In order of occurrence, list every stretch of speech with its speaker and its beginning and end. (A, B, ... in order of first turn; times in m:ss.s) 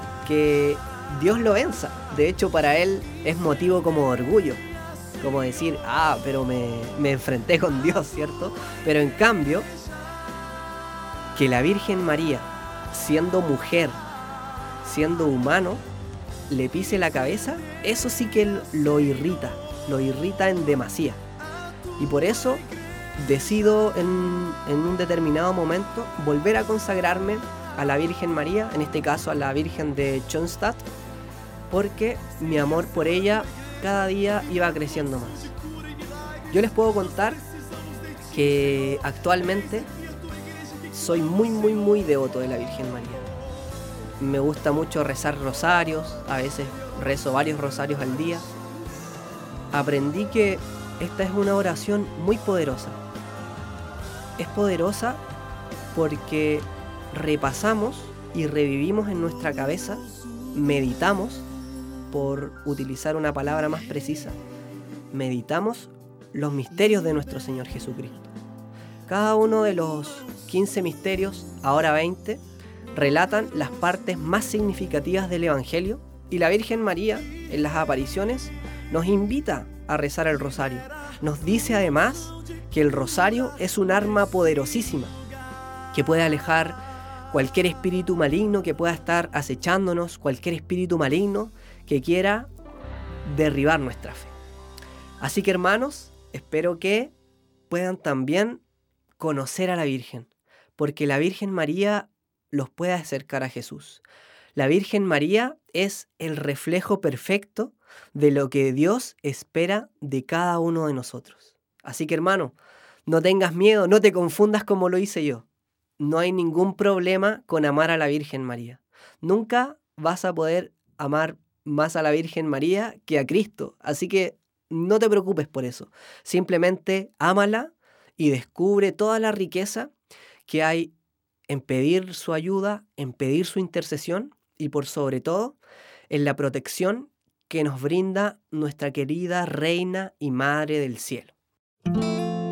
0:00.2-0:04.6 A
0:05.2-0:09.7 A
0:11.3-0:14.0 A
0:14.8-0:15.8 A
0:16.5-0:21.2 A
0:22.0-0:22.6 A
0:23.2-0:30.8 A
0:31.7-0:35.5 A
0:36.5-0:37.4 A
0:38.3-0:39.9 A
0:40.9-0:43.3 A
0:44.2-0:48.5 A
0:49.7-0:53.0 A
0:54.4-0:55.2 A
0:55.9-1:01.4 A
1:02.1-1:04.4 A
1:05.1-1:08.3 A
1:09.1-1:25.2 A
1:25.9-1:32.5 A
1:33.2-1:34.4 A
1:35.2-1:37.1 A
1:37.7-1:38.6 A
1:39.2-1:55.4 A
1:56.0-2:09.9 A
2:10.4-2:10.9 A
2:11.5-2:15.6 A
2:16.1-2:21.3 A